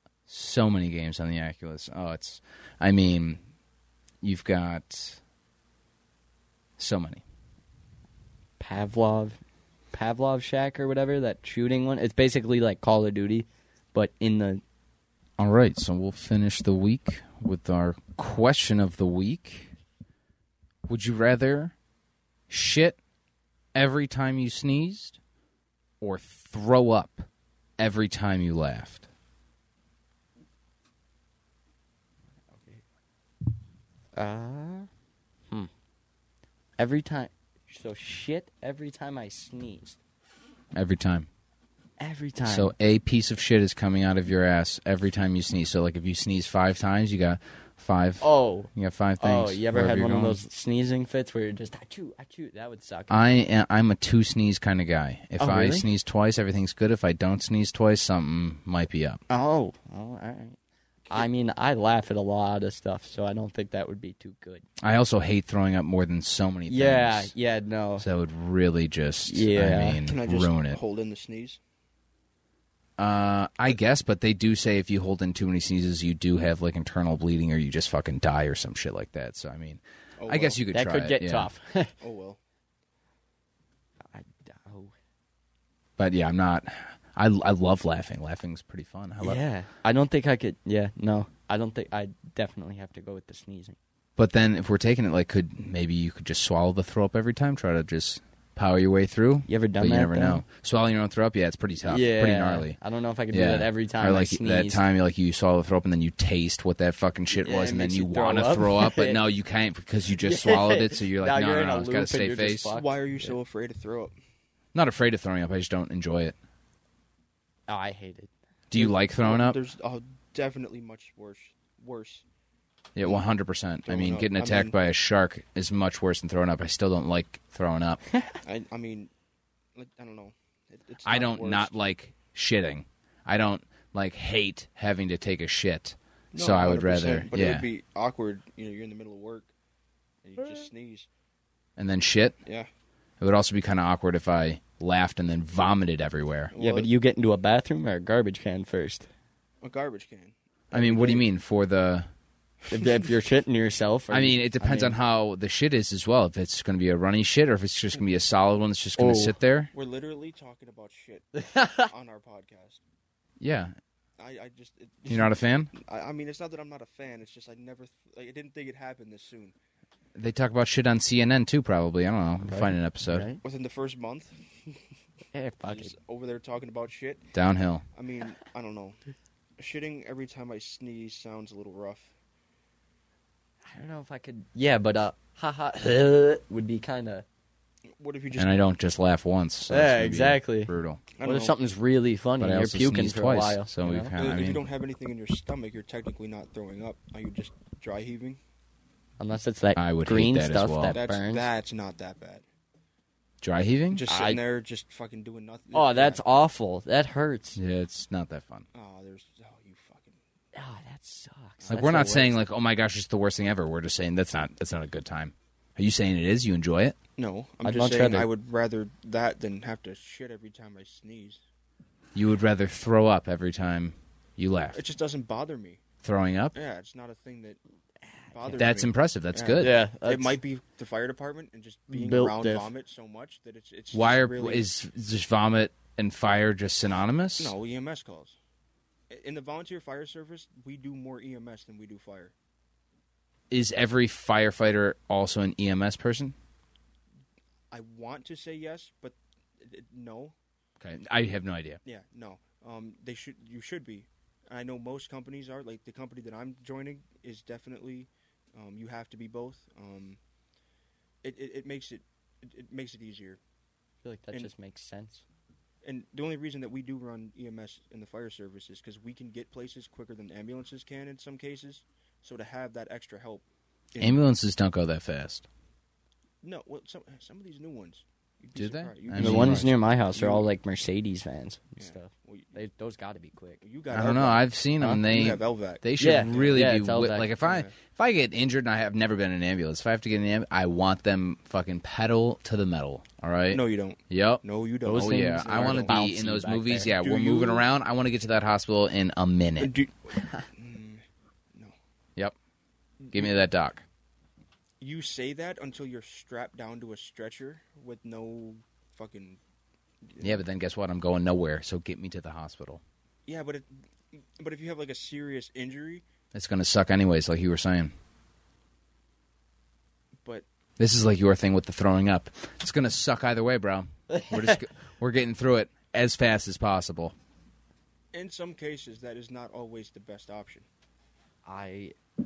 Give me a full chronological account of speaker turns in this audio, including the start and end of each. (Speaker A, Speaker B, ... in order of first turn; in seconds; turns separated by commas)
Speaker A: 0.3-3.4, Speaker A: 4.2-5.2, Speaker A: 6.8-7.2, Speaker B: 8.6-9.4, Speaker B: 9.9-14.6, Speaker A: 15.4-19.7, Speaker A: 20.9-21.7, Speaker A: 22.5-23.0, Speaker A: 23.7-25.2, Speaker A: 26.0-27.3, Speaker A: 27.8-29.1, Speaker B: 32.5-32.8, Speaker B: 34.1-34.9, Speaker B: 36.8-40.0, Speaker A: 40.7-41.3, Speaker B: 42.0-42.7, Speaker A: 42.5-50.4, Speaker B: 48.2-53.3, Speaker A: 53.1-59.2, Speaker B: 55.4-55.9, Speaker B: 59.3-60.6, Speaker B: 61.1-64.6, Speaker A: 64.8-67.3, Speaker B: 66.7-68.0, Speaker A: 68.0-70.8, Speaker B: 69.3-70.0, Speaker C: 70.0-71.6, Speaker A: 73.0-81.5, Speaker C: 80.2-80.6, Speaker B: 80.7-81.9, Speaker C: 82.0-82.4, Speaker B: 84.1-84.9, Speaker A: 86.0-89.4, Speaker B: 89.2-93.8, Speaker A: 94.2-102.8, Speaker B: 99.5-100.4, Speaker B: 101.8-104.8, Speaker A: 103.3-112.7, Speaker B: 107.3-109.2, Speaker B: 110.2-113.3, Speaker C: 112.7-114.1, Speaker A: 114.7-116.3, Speaker B: 117.7-118.3, Speaker A: 118.7-119.6, Speaker C: 118.7-122.2, Speaker A: 122.9-128.0, Speaker C: 123.8-124.7, Speaker C: 128.4-129.1, Speaker C: 129.8-131.7, Speaker A: 131.0-137.7, Speaker C: 136.3-139.5, Speaker C: 140.2-141.1, Speaker A: 141.8-142.4, Speaker A: 143.2-146.5, Speaker C: 146.5-146.9, Speaker B: 146.6-149.1, Speaker C: 149.6-151.2, Speaker A: 150.7-152.1, Speaker B: 152.7-154.9, Speaker A: 154.1-159.7, Speaker B: 159.0-159.3, Speaker C: 159.7-162.8, Speaker B: 161.4-161.9, Speaker A: 163.4-163.8, Speaker C: 164.2-169.5, Speaker A: 165.1-165.7, Speaker A: 170.1-173.3, Speaker B: 172.4-173.4, Speaker C: 173.4-174.8, Speaker B: 175.3-175.9, Speaker C: 175.7-177.3, Speaker A: 177.3-177.8, Speaker C: 177.9-179.0, Speaker C: 179.6-182.1, Speaker B: 183.7-187.2, Speaker C: 188.0-188.5, Speaker A: 188.3-191.0, Speaker B: 189.7-194.1, Speaker C: 191.1-191.5, Speaker A: 192.4-194.6, Speaker C: 194.1-198.4, Speaker B: 199.2-201.5, Speaker A: 199.8-201.0, Speaker C: 200.9-202.4, Speaker A: 203.4-204.0, Speaker C: 203.9-206.2, Speaker B: 204.1-204.4, Speaker B: 205.7-207.6, Speaker A: 207.6-208.7, Speaker C: 208.7-210.2, Speaker B: 210.5-212.4, Speaker C: 211.6-212.1, Speaker A: 211.7-217.0, Speaker C: 217.2-221.4, Speaker B: 217.6-218.3, Speaker A: 222.1-224.8, Speaker C: 224.7-225.8, Speaker A: 226.0-226.6, Speaker C: 226.5-227.6, Speaker C: 228.3-234.7, Speaker A: 228.5-229.8, Speaker B: 229.6-230.4, Speaker B: 231.9-232.7, Speaker A: 233.9-237.6, Speaker C: 237.4-238.3, Speaker C: 239.1-242.3, Speaker A: 243.5-246.3, Speaker C: 247.7-250.3, Speaker A: 250.8-251.8, Speaker C: 251.8-260.2, Speaker C: 261.2-263.4, Speaker B: 264.0-265.2, Speaker C: 265.8-274.2, Speaker A: 274.0-275.5, Speaker C: 276.4-280.5, Speaker A: 278.6-279.7, Speaker B: 279.1-283.6, Speaker C: 281.8-282.6, Speaker C: 283.6-286.7, Speaker A: 283.9-299.7, Speaker B: 286.0-287.3, Speaker C: 287.4-287.7, Speaker C: 293.5-296.0, Speaker B: 294.8-296.9, Speaker C: 296.9-297.6, Speaker C: 299.6-301.0, Speaker C: 303.0-303.4, Speaker A: 303.1-303.8, Speaker C: 304.8-309.4, Speaker C: 310.1-310.4, Speaker A: 310.2-312.8, Speaker C: 313.2-316.0, Speaker A: 316.3-317.9, Speaker A: 320.8-327.1, Speaker B: 324.1-324.6, Speaker C: 328.1-330.7, Speaker B: 331.4-331.9